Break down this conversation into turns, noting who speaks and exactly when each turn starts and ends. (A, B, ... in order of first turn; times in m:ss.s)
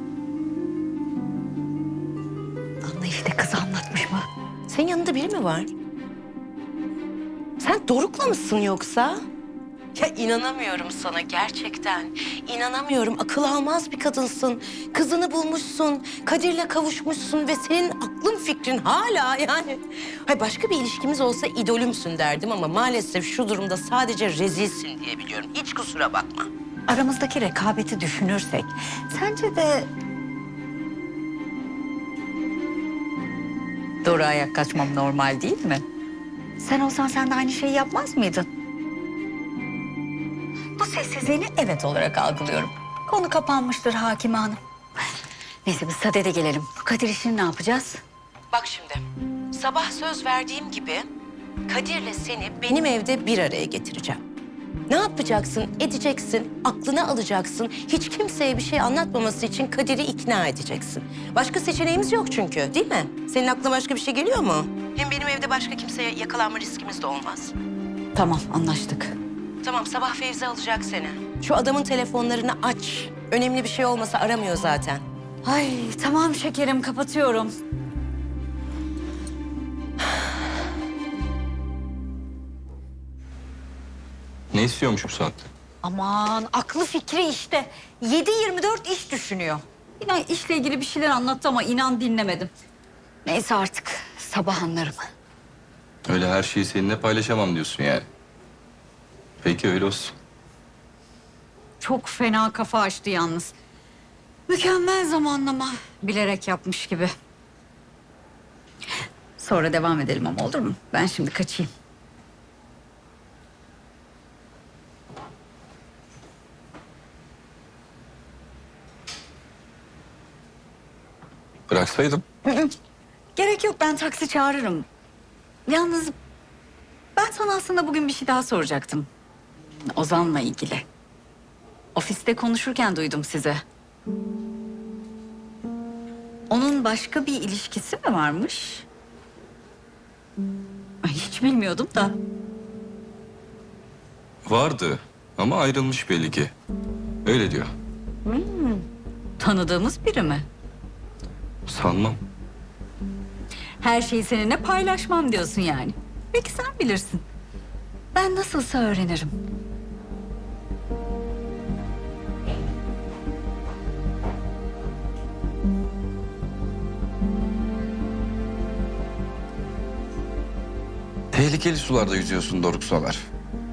0:02.8-0:04.2 A
0:04.7-0:05.7 B
0:07.6-0:09.2 B
0:09.9-0:26.5 B
0:26.9-0:29.9 A
0:34.0-0:35.8 A
0:36.6-0:38.5 A
0:40.8-0:44.6 A
0:45.6-0:48.0 A
0:48.5-0:51.0 B
0:51.7-0:54.2 B
0:54.9-1:07.5 B
1:08.1-1:09.1 A
1:09.6-1:15.0 B
1:15.4-1:17.5 A
1:24.5-1:25.4 C
1:25.8-1:32.5 A
1:33.2-1:35.1 A
1:36.0-1:38.1 C
1:39.4-1:40.1 C
1:41.8-1:43.5 A
1:44.5-1:47.1 A
1:49.4-1:51.7 A
2:01.7-2:02.2 C
2:02.4-2:02.7 A
2:03.4-2:04.9 A
2:05.6-2:06.1 A
2:07.2-2:09.1 A
2:09.8-2:10.8 A
2:11.9-2:13.6 A
2:16.5-2:18.8 A
2:21.0-2:22.2 A
2:24.4-2:26.5 C
2:27.2-2:27.7 C
2:28.2-2:28.8 A
2:29.4-2:30.5 A
2:31.6-2:32.2 C
2:33.8-2:37.2 A
2:38.1-2:39.3 A
2:51.3-2:53.2 C